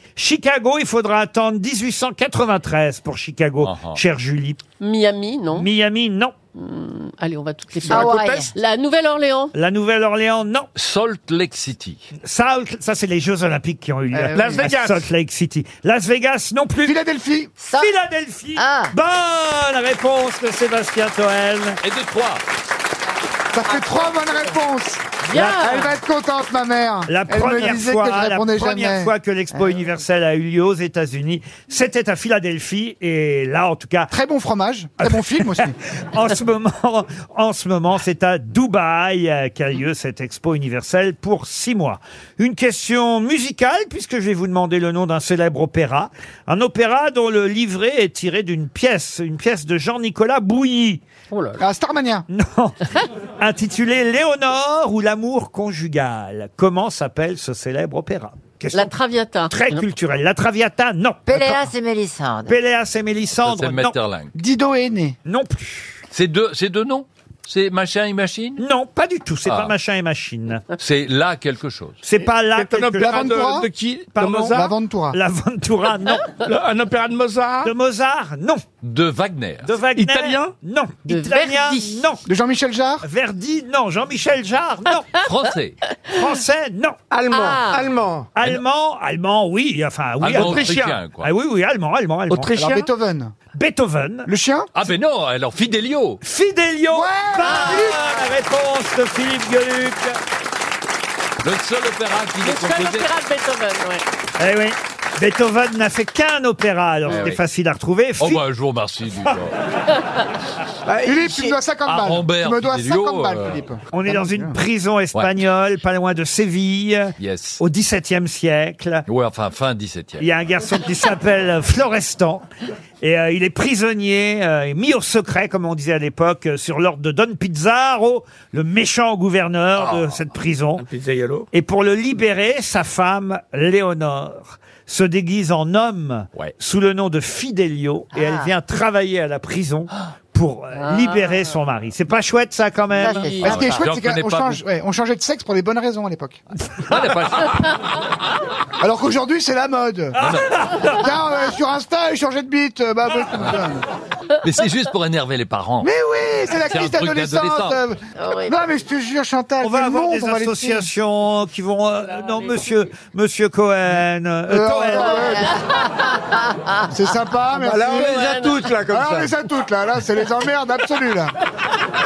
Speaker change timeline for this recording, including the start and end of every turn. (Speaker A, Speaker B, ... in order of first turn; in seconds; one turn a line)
Speaker A: 0.2-4.6
Speaker B: 3.6-4.0
Speaker C: 4.8-5.7
Speaker A: 5.5-6.3
Speaker C: 6.5-9.5
Speaker D: 7.9-8.5
Speaker A: 9.5-10.7
Speaker B: 10.8-12.1
Speaker A: 12.2-17.0
Speaker E: 14.2-15.1
Speaker F: 16.9-17.5
Speaker D: 17.6-17.9
Speaker A: 17.7-21.8
Speaker D: 18.6-18.9
Speaker B: 21.8-22.4
Speaker F: 23.5-29.1
Speaker C: 23.6-24.4
Speaker C: 25.2-26.0
Speaker A: 27.1-34.1
Speaker F: 34.1-35.7
Speaker A: 36.1-51.0
Speaker F: 51.6-52.2
Speaker A: 52.3-58.9
Speaker C: 58.7-59.9
Speaker A: 59.5-61.7
Speaker D: 61.3-62.6
Speaker A: 62.5-64.0
Speaker B: 63.4-64.3
Speaker F: 64.3-65.2
Speaker A: 65.2-66.0
Speaker B: 66.1-68.6
Speaker A: 68.6-70.6
Speaker B: 69.5-69.7
Speaker B: 70.8-72.0
Speaker A: 72.0-73.3
Speaker E: 72.5-74.7
Speaker F: 73.0-73.7
Speaker A: 74.2-76.2
Speaker F: 74.6-75.2
Speaker E: 76.4-77.7
Speaker A: 77.6-78.6
Speaker B: 78.8-79.7
Speaker A: 79.6-82.2
Speaker E: 80.0-80.5
Speaker C: 81.1-82.0
Speaker F: 82.3-83.0
Speaker A: 83.0-85.1
Speaker B: 85.2-85.8
Speaker A: 86.1-87.0
Speaker E: 87.1-87.9
Speaker C: 87.3-87.9
Speaker A: 88.3-92.5
Speaker B: 90.2-91.3
Speaker E: 90.3-91.0
Speaker E: 92.3-92.9
Speaker F: 92.6-93.3
Speaker A: 93.5-94.3
Speaker F: 94.3-94.7
Speaker B: 94.7-96.2
Speaker A: 96.2-100.2
Speaker F: 96.9-98.0
Speaker C: 97.5-97.9
Speaker B: 101.4-103.1
Speaker C: 102.4-104.0
Speaker A: 104.4-108.4
Speaker B: 107.1-107.4
Speaker B: 108.2-109.5
Speaker F: 111.0-114.5
Speaker C: 111.1-111.6
Speaker B: 111.9-113.7
Speaker A: 113.9-119.0
Speaker B: 117.2-117.6
Speaker B: 119.1-120.3
Speaker A: 120.2-122.5
Speaker A: 123.0-130.8
Speaker E: 130.8-131.5
Speaker A: 131.5-143.4
Speaker D: 138.2-138.5
Speaker D: 142.9-143.7
Speaker F: 143.4-146.4
Speaker B: 143.4-144.6
Speaker B: 146.9-147.6
Speaker F: 148.8-150.2
Speaker B: 150.2-150.6
Speaker F: 150.9-153.8
Speaker B: 154.4-155.9
Speaker F: 155.8-160.9
Speaker B: 156.6-157.8
Speaker C: 158.2-158.5
Speaker A: 159.6-165.3
Speaker F: 164.5-165.5
Speaker C: 165.0-165.5
Speaker F: 166.9-168.2
Speaker E: 167.7-169.1
Speaker C: 167.9-168.7
Speaker F: 168.9-171.3